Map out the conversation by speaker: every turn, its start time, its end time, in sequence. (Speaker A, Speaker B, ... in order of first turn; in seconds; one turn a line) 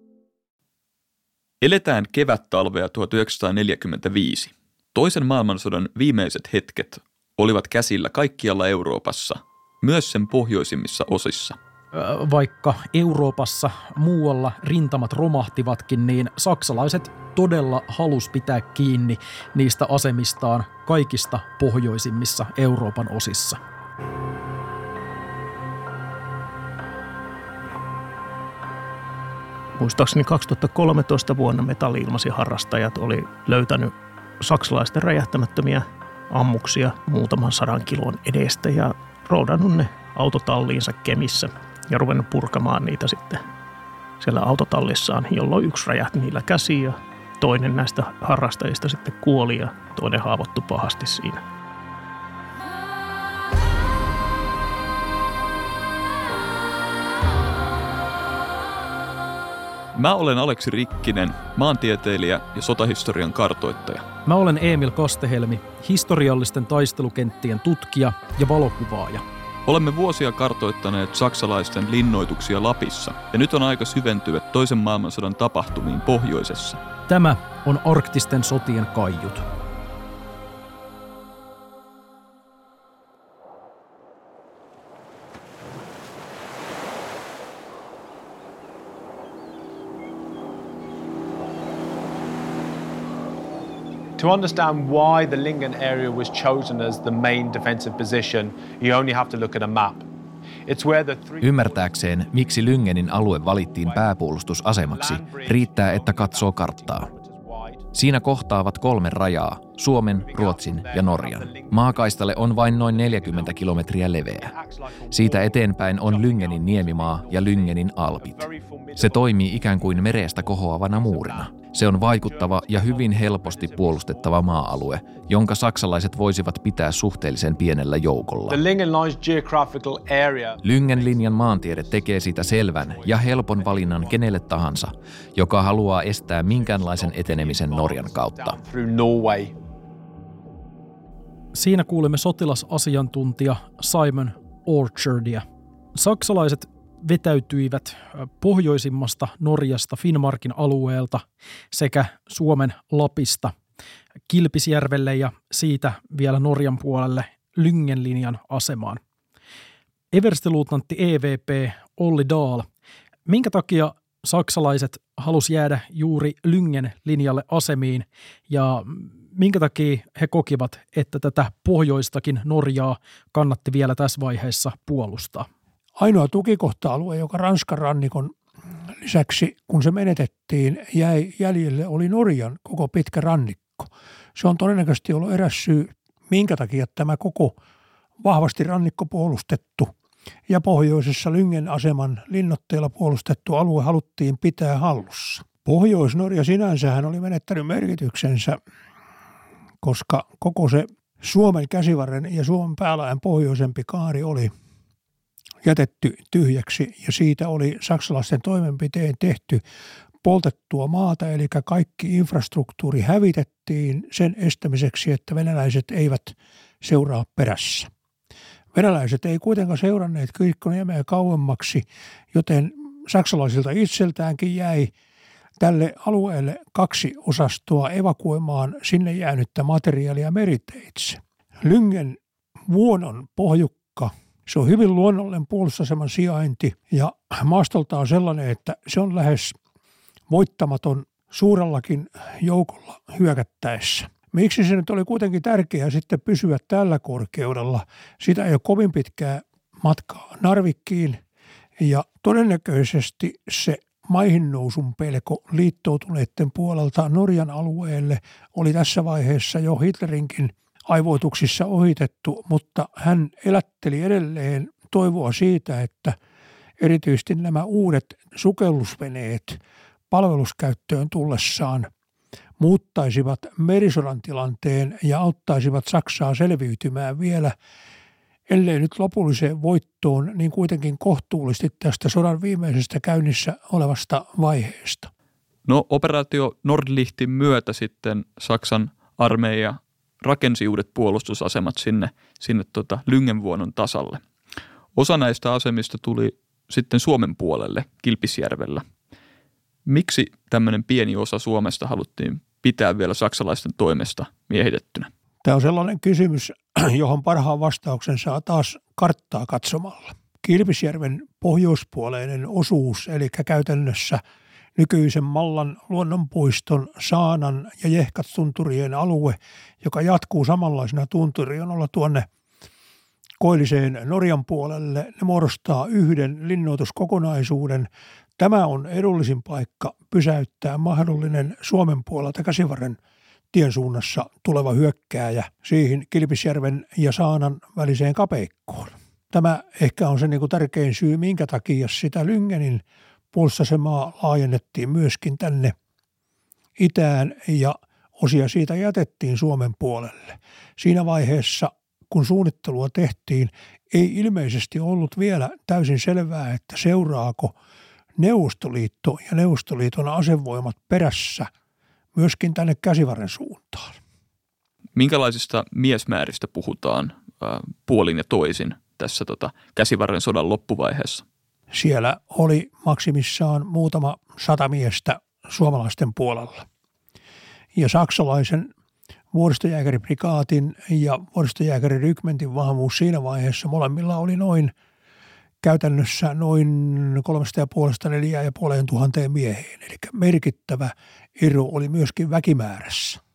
Speaker A: 1.6-11.6
Speaker B: 11.9-23.6
Speaker C: 29.8-43.4
Speaker C: 44.2-51.4
Speaker A: 60.0-64.0
Speaker B: 64.3-69.2
Speaker A: 69.7-76.8
Speaker B: 77.1-79.5
Speaker D: 94.2-100.1
Speaker D: 100.7-102.8
Speaker E: 101.4-107.1
Speaker D: 103.6-104.1
Speaker D: 104.8-107.9
Speaker E: 107.9-114.5
Speaker D: 110.1-124.9
Speaker E: 115.1-128.6
Speaker D: 128.5-134.5
Speaker E: 130.6-138.6
Speaker D: 136.5-139.6
Speaker B: 141.6-153.5
Speaker B: 154.3-159.0
Speaker B: 160.1-162.7
Speaker B: 163.3-175.5
Speaker F: 176.0-178.3
Speaker F: 179.0-187.6
Speaker F: 188.2-189.9
Speaker F: 190.5-198.6
Speaker F: 199.8-204.5
Speaker F: 205.6-209.6
Speaker F: 210.2-217.9
Speaker F: 218.7-224.9
Speaker F: 225.6-239.6
Speaker F: 240.3-251.2
Speaker F: 251.8-266.1
Speaker F: 266.8-271.9
Speaker F: 272.6-277.6
Speaker F: 278.5-285.1
Speaker A: 285.7-294.2
Speaker A: 295.0-298.8
Speaker A: 299.9-305.1
Speaker F: 305.4-314.2
Speaker F: 314.8-322.3
Speaker F: 323.4-333.0
Speaker F: 333.5-345.8
Speaker F: 346.8-357.6
Speaker F: 358.2-361.5
Speaker F: 362.1-364.0
Speaker A: 365.0-371.2
Speaker F: 371.7-376.6
Speaker F: 377.8-378.7
Speaker F: 379.3-384.7
Speaker F: 385.6-393.2